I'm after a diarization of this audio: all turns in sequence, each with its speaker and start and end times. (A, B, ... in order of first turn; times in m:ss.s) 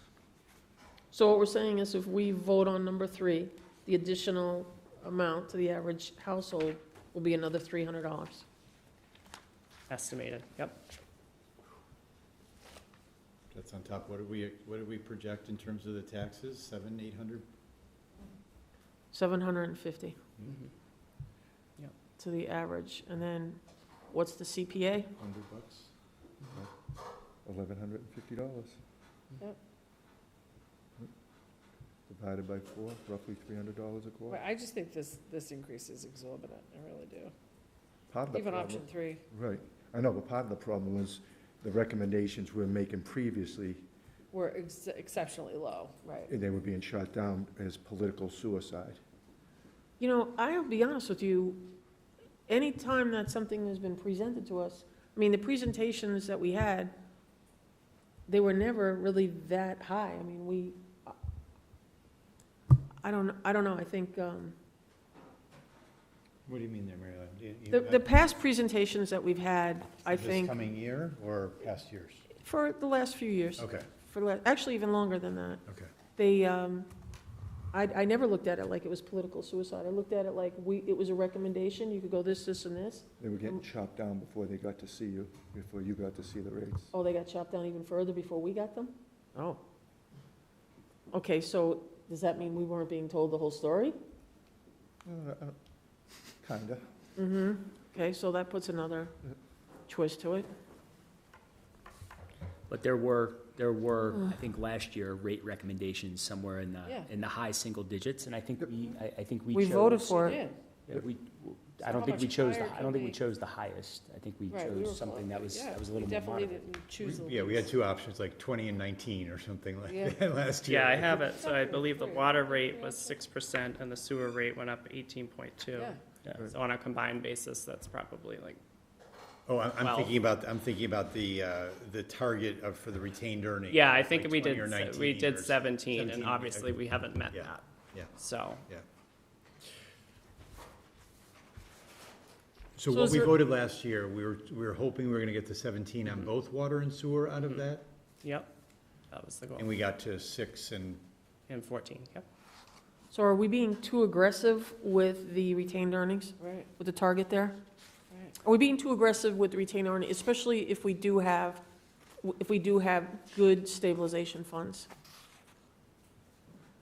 0:01.1-0:08.4 A
0:09.9-0:10.8 B
0:13.5-0:17.4 C
0:19.1-0:20.2 A
0:22.2-0:25.1 A
0:25.2-0:25.8 C
0:27.4-0:28.8 D
0:32.1-0:34.4 D
0:34.3-0:37.3 E
0:38.1-0:43.9 D
0:38.3-0:39.2 E
0:44.3-0:46.3 E
0:46.3-0:49.0 D
0:50.0-0:51.7 A
0:52.5-0:56.9 A
0:58.3-1:01.2 A
1:03.0-1:04.6 A
1:06.5-1:08.1 C
1:07.7-1:10.6 A
1:10.1-1:12.3 C
1:12.3-1:15.6 A
1:13.6-1:13.9 C
1:16.2-1:16.9 A
1:17.7-1:23.1 A
1:23.2-1:26.9 D
1:26.9-1:29.6 A
1:31.1-1:34.0 A
1:35.0-1:35.6 D
1:36.4-1:36.9 D
1:37.2-1:39.1 A
1:39.9-1:40.5 A
1:42.7-1:50.2 F
1:46.8-1:47.1 E
1:49.5-1:50.4 A
1:50.2-1:50.6 E
1:50.9-1:56.6 F
1:51.8-1:53.2 E
1:54.5-1:57.7 E
1:57.0-2:01.2 C
1:59.8-2:00.2 E
2:00.6-2:08.6 B
2:01.1-2:03.2 E
2:05.8-2:06.0 E
2:09.5-2:16.8 C
2:09.8-2:10.2 B
2:13.7-2:17.6 B
2:17.3-2:18.1 C
2:18.2-2:18.6 B
2:22.8-2:27.8 C
2:22.9-2:23.3 A
2:28.2-2:28.5 B
2:29.1-2:29.7 B
2:29.6-2:31.0 C
2:31.5-2:32.3 B
2:33.1-2:37.6 A
2:36.4-2:36.7 E
2:38.1-2:38.4 E
2:38.4-2:41.6 A
2:42.2-2:44.9 A